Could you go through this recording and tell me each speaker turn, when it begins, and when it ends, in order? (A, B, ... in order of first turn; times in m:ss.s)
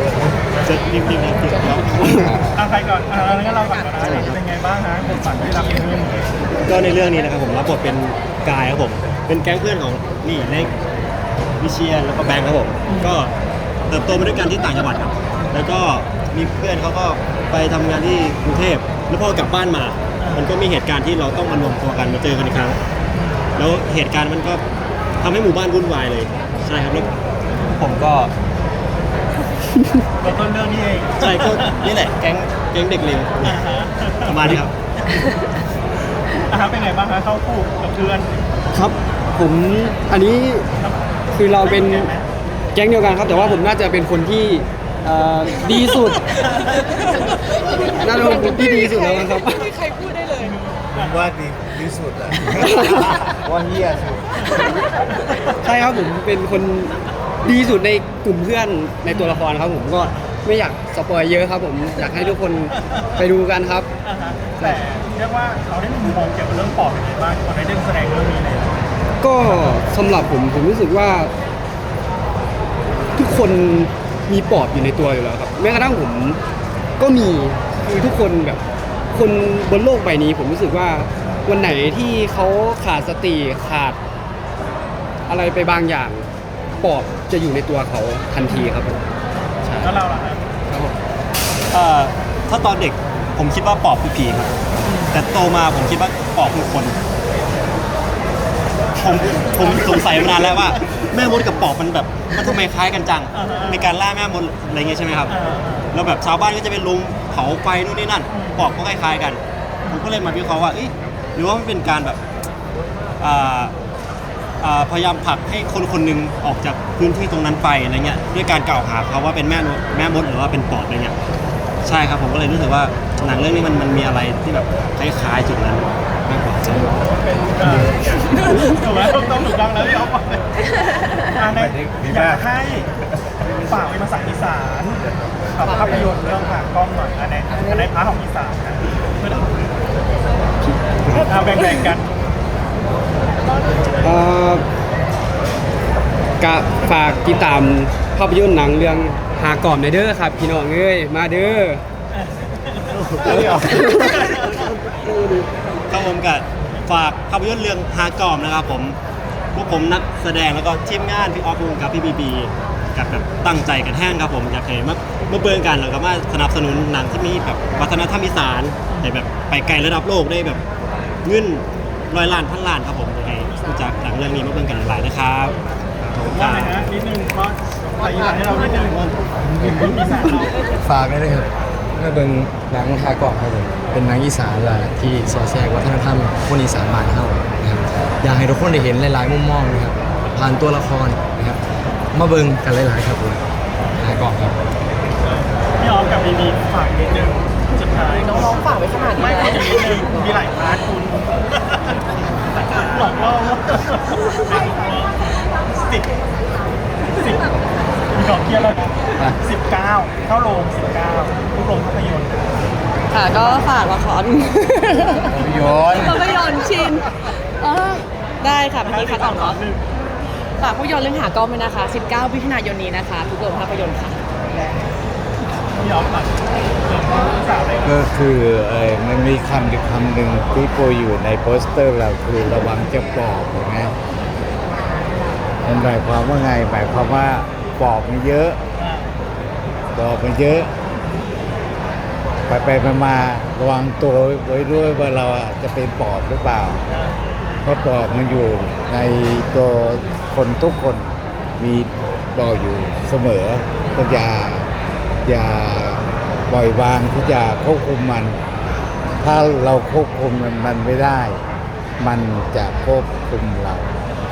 0:00.2-0:02.6 A
0:02.6-0:06.2 B
0:04.0-0:04.4 A
0:06.6-0:10.7 A
0:11.6-0:13.3 A
0:12.9-0:13.2 B
0:13.9-0:22.8 A
0:20.2-0:20.5 B
0:23.6-0:24.6 A
0:25.2-0:27.1 A
0:27.8-0:28.3 A
0:30.2-0:31.8 B
0:31.2-0:33.7 A
0:33.4-0:34.6 B
0:34.3-0:34.7 A
0:36.4-0:38.3 B
0:38.7-0:40.6 C
0:40.8-0:42.3 B
0:41.4-0:42.1 C
0:42.8-0:46.2 C
0:43.3-0:43.6 B
0:48.0-0:49.8 C
0:50.4-0:51.3 B
0:50.9-0:54.8 D
0:55.6-0:56.9 C
0:57.4-1:03.9 C
0:59.1-0:59.5 B
1:02.3-1:03.1 B
1:04.0-1:08.8 B
1:09.2-1:11.3 C
1:09.4-1:09.8 B
1:13.2-1:16.4 C
1:17.0-1:18.6 C
1:19.1-1:24.0 C
1:25.3-1:26.3 C
1:26.8-1:29.0 C
1:29.6-1:29.9 C
1:29.8-1:30.4 B
1:31.7-1:34.5 A
1:34.8-1:35.2 B
1:35.1-1:37.0 A
1:39.0-1:45.4 A
1:39.1-1:40.8 B
1:43.3-1:43.9 B
1:45.3-1:45.9 B
1:45.9-1:52.2 A
1:48.3-1:48.7 B
1:53.2-1:53.7 A
1:54.6-2:01.2 A
2:01.8-2:07.0 A
2:07.6-2:10.4 B
2:11.3-2:12.9 B
2:11.9-2:12.3 A
2:13.6-2:15.0 B
2:15.6-2:19.6 B
2:21.3-2:22.1 B
2:24.0-2:24.6 C
2:26.4-2:31.8 C
2:32.1-2:34.7 B
2:32.9-2:34.8 A
2:35.9-2:39.0 A
2:39.6-2:50.6 A
2:51.2-2:57.0 A
2:56.3-2:59.0 B
2:58.4-3:00.1 A
2:59.7-3:00.6 B
3:00.8-3:11.6 E
3:12.1-3:13.4 E
3:14.0-3:14.6 E
3:15.2-3:18.6 B
3:18.2-3:19.7 F
3:19.2-3:21.9 B
3:22.6-3:26.1 B
3:27.0-3:27.5 B
3:28.1-3:32.6 B
3:33.1-3:35.4 F
3:33.4-3:33.7 B
3:35.3-3:36.3 D
3:35.9-3:39.6 F
3:36.7-3:37.1 B
3:38.8-3:39.8 B
3:40.6-3:44.2 F
3:44.5-3:44.9 B
3:45.8-3:48.0 B
3:47.8-3:53.9 D
3:55.6-3:58.6 D
3:58.8-3:59.1 B
4:00.0-4:00.7 D
4:02.5-4:06.8 D
4:06.9-4:07.2 B
4:07.6-4:14.7 D
4:15.2-4:18.4 D
4:19.2-4:21.4 D
4:22.0-4:23.9 D